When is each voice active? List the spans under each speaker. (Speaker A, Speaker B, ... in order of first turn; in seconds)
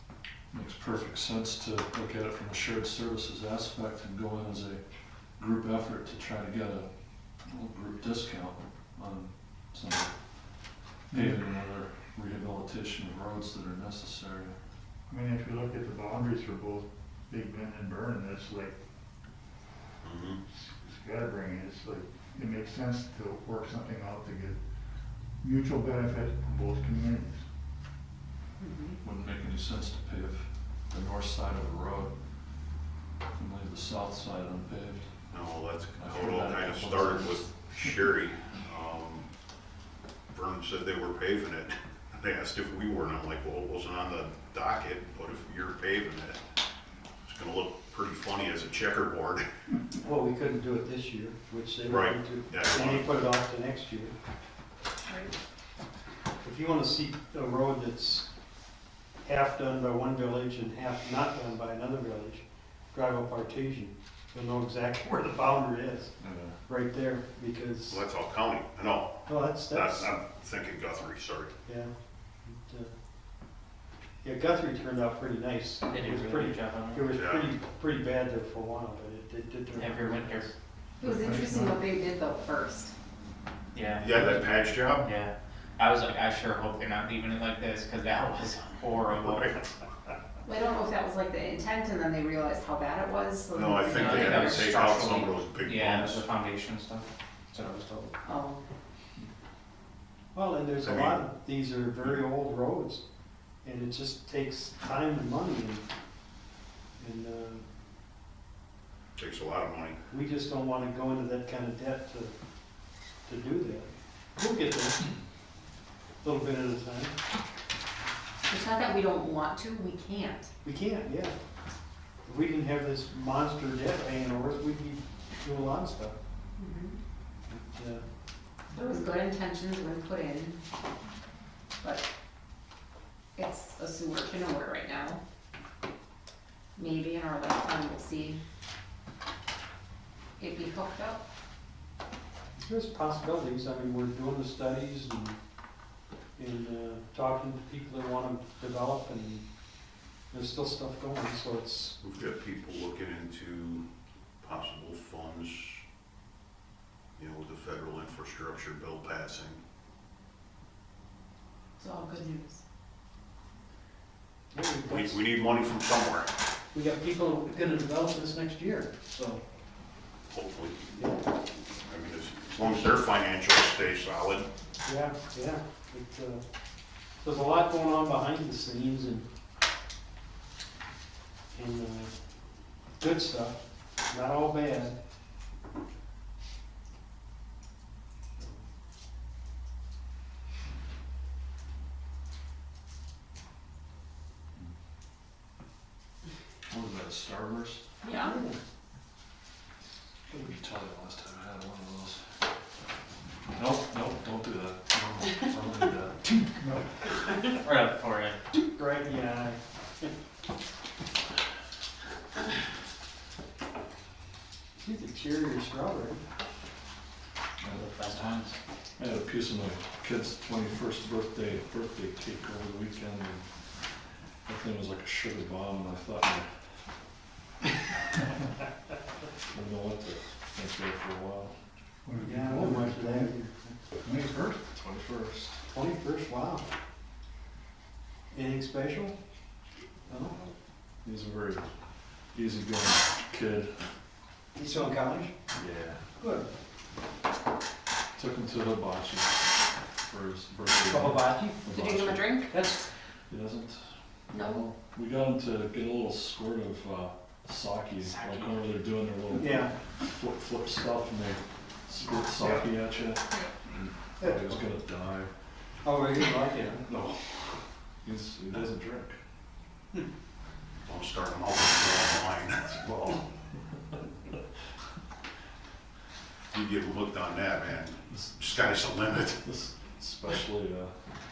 Speaker A: 0.5-4.8, 5.4-6.9, 7.5-10.2, 11.1-14.6, 29.0-32.1, 33.4-35.1, 36.0-38.0, 66.2-66.6, 196.7-197.8, 200.3-202.2, 203.5-206.2, 219.0-223.5, 224.5-226.5, 229.5-231.5, 234.7-235.7, 241.0-241.7, 242.3-243.8, 245.6-246.0, 248.2-249.5, 250.1-252.4, 253.3-265.3, 266.9-269.2, 272.7-273.2, 278.1-278.4, 279.3-280.9
Speaker B: 11.1-11.4, 15.1-18.8, 20.5-24.6, 25.4-27.5, 81.0-81.8, 206.3-207.0, 232.1-233.4, 233.9-234.7
Speaker C: 20.0-20.4, 35.3-39.3, 40.3-46.4, 47.2-49.5, 51.9-53.2, 67.9-71.5, 77.1-77.5, 84.0-85.1, 89.2-89.5, 93.5-96.2, 100.8-101.2, 109.2-110.0, 152.0-153.9, 154.4-155.8, 157.2-159.6, 164.9-166.3, 170.3-171.0, 171.8-174.5, 270.9-272.8, 276.5-279.4
Speaker D: 28.6-29.0, 55.1-55.3, 81.0-82.9, 90.5-94.9, 98.2-98.6, 118.5-120.5, 126.6-126.9, 128.8-130.6, 133.4-135.2, 136.8-138.4, 140.4-141.2, 161.8-162.6, 198.0-198.4, 251.8-252.5, 254.3-254.6
Speaker E: 50.0-54.1, 56.4-58.3, 59.2-66.1, 66.7-68.0, 69.3-70.1, 71.7-71.9, 72.4-72.9, 74.2-80.5, 100.3-103.0, 103.6-105.8, 107.0-107.6, 110.1-112.3, 113.2-115.1, 116.2-117.1, 120.6-121.3, 122.2-126.2, 127.5-128.0, 142.6-145.4, 146.4-149.5, 150.3-152.0, 164.5-165.2, 166.7-169.4, 171.0-171.2, 174.8-176.4, 177.2-179.3, 181.5-182.1, 183.0-184.9, 198.2-198.6, 208.5-210.1, 214.8-216.2, 232.2-233.7, 235.7-236.7, 238.3-239.2, 240.1-240.4, 244.6-245.3, 246.2-246.5, 250.8-251.7, 252.5-252.8, 259.3-259.7, 262.4-262.7, 264.2-264.6, 265.8-266.9
Speaker F: 75.9-77.1, 79.8-80.5, 83.7-84.3, 85.0-89.6, 93.9-98.2, 207.6-208.4, 217.6-218.6, 258.2-258.6